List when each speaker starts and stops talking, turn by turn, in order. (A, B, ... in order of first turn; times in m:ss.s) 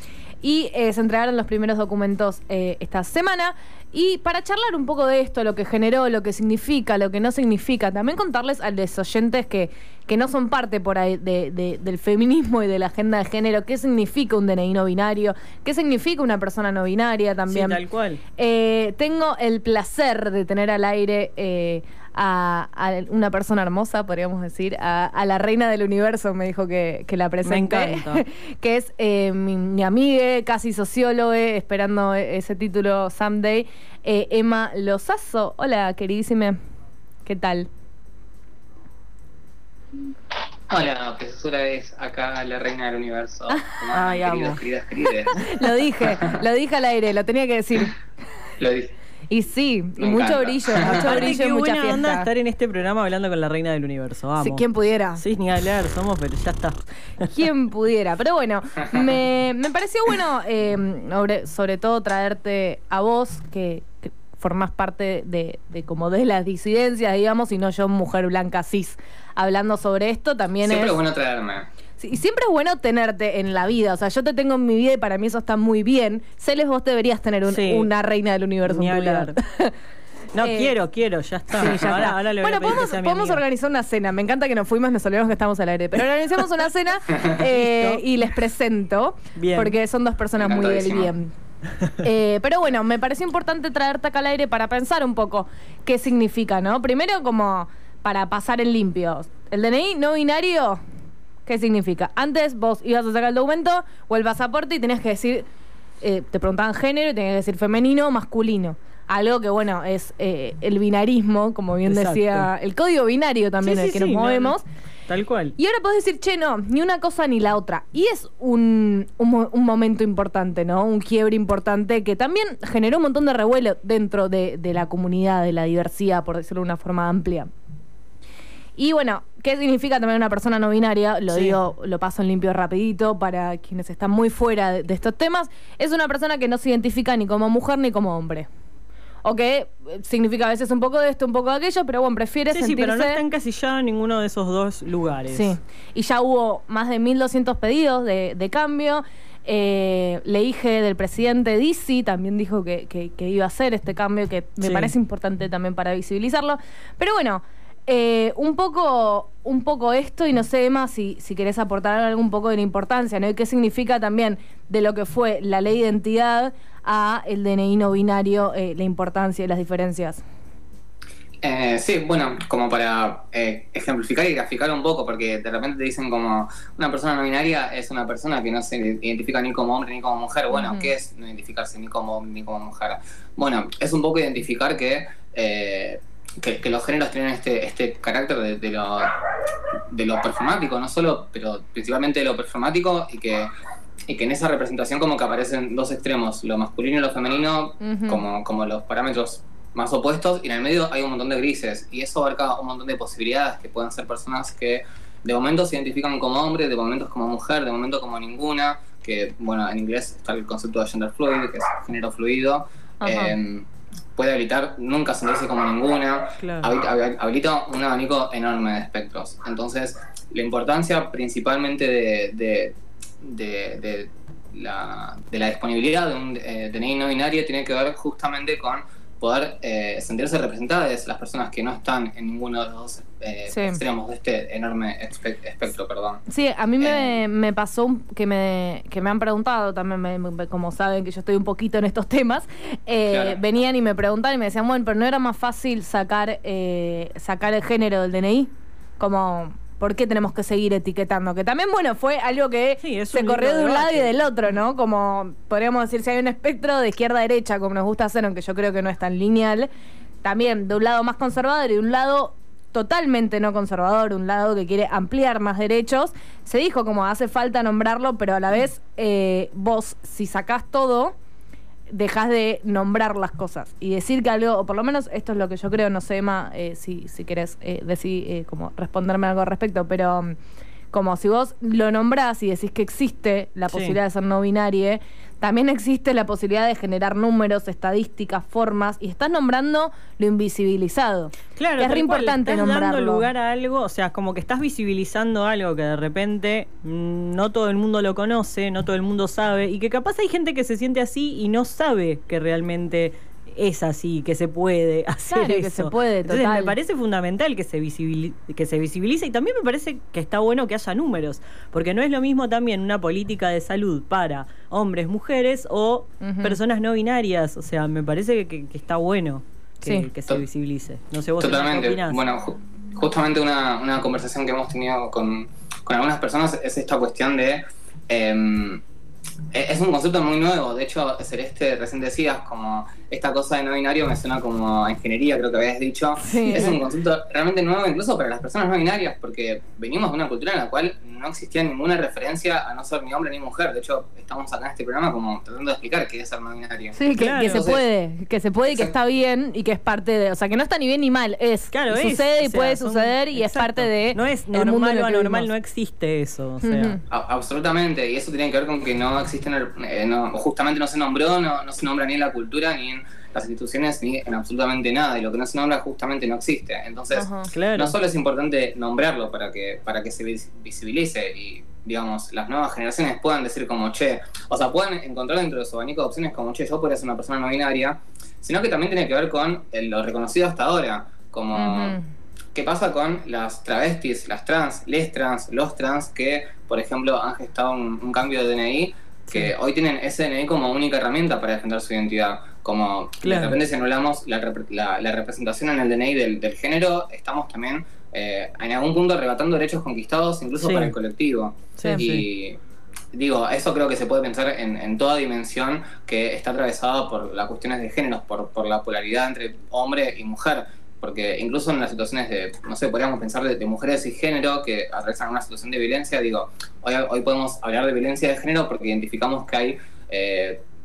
0:00.4-0:17.8 A
0:17.5-0:18.2 B
0:18.4-0:36.6 A
0:27.4-0:28.2 B
0:37.2-0:37.7 A
0:40.7-0:46.4 C
0:43.9-0:44.6 B
0:45.2-0:48.0 A
0:48.6-0:48.9 C
0:49.3-0:52.3 A
0:50.0-0:51.2 C
0:50.8-0:54.6 B
0:54.4-0:55.2 A
0:55.2-0:57.3 B
0:57.2-1:11.0 A
1:10.6-1:11.7 C
1:12.0-1:19.7 A
1:17.5-1:17.9 B
1:18.7-1:19.3 B
1:20.3-1:23.4 B
1:20.4-1:20.8 A
1:21.6-1:31.3 A
1:27.4-1:28.0 B
1:29.4-1:29.7 B
1:30.4-1:31.1 C
1:32.0-1:40.8 A
1:41.4-1:45.4 A
1:46.0-1:54.6 A
1:51.9-1:52.4 B
1:53.6-1:54.5 B
1:55.1-1:55.5 B
1:55.6-2:07.5 A
2:08.8-2:18.5 A
2:11.3-2:11.6 B
2:19.2-2:23.2 A
2:22.5-2:25.5 B
2:25.3-2:50.2 A
2:34.6-2:34.9 B
2:51.4-3:09.1 C
3:00.5-3:00.9 A
3:09.9-3:13.5 C
3:14.1-3:56.2 C
3:17.8-3:18.2 A
3:33.0-3:33.3 A
3:36.4-3:36.7 B
3:53.5-3:53.8 A
3:56.3-4:19.7 A
3:56.8-3:57.1 C
4:03.1-4:03.4 C
4:12.8-4:14.1 B
4:20.2-4:31.1 A
4:31.9-4:40.3 A
4:40.9-4:53.3 A
4:43.7-4:44.0 B
4:51.6-5:22.2 B
5:05.3-5:06.8 A
5:16.2-5:16.6 A
5:21.4-5:28.8 C
5:29.5-5:47.8 C
5:36.2-5:36.8 A
5:46.9-5:55.5 A
5:47.2-5:47.6 B
5:51.7-5:57.0 B
5:56.6-5:57.0 A
5:57.1-6:22.0 C
6:07.1-6:07.5 A
6:07.5-6:07.9 B
6:21.5-6:22.0 A
6:22.5-6:42.6 C
6:33.2-6:33.6 B
6:40.6-6:40.9 B
6:41.8-6:42.2 B
6:43.1-7:00.6 C